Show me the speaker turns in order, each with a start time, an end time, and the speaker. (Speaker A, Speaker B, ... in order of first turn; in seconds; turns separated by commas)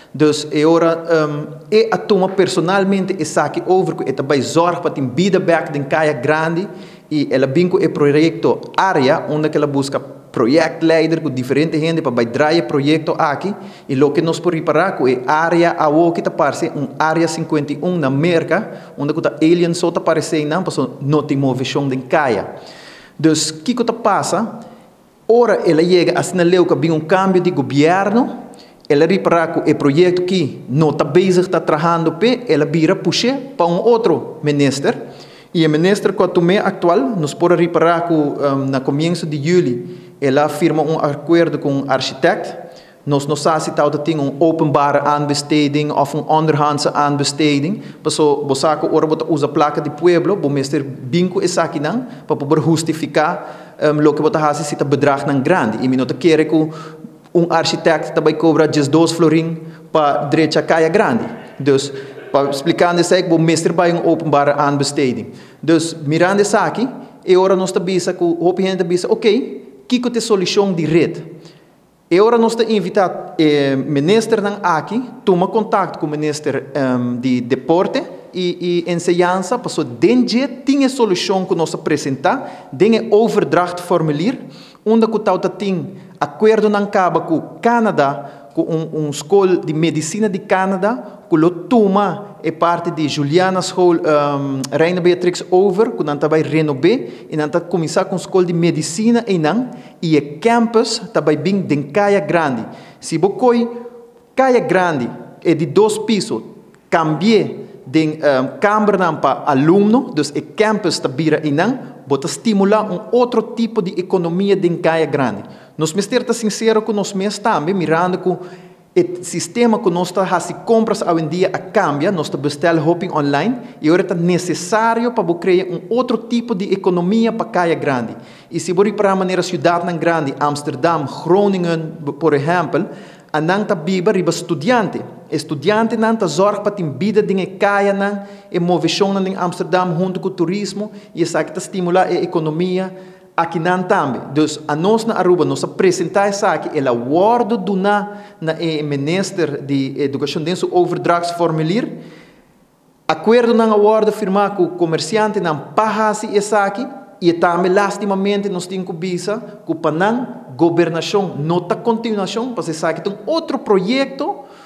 Speaker A: 0.1-22.5, Speaker A: 23.2-24.6, Speaker A: 25.3-28.4, Speaker A: 28.9-35.0, Speaker A: 35.5-56.7, Speaker A: 57.3-71.3, Speaker A: 72.1-103.7, Speaker A: 104.3-118.4, Speaker A: 118.9-151.9, Speaker A: 153.1-164.4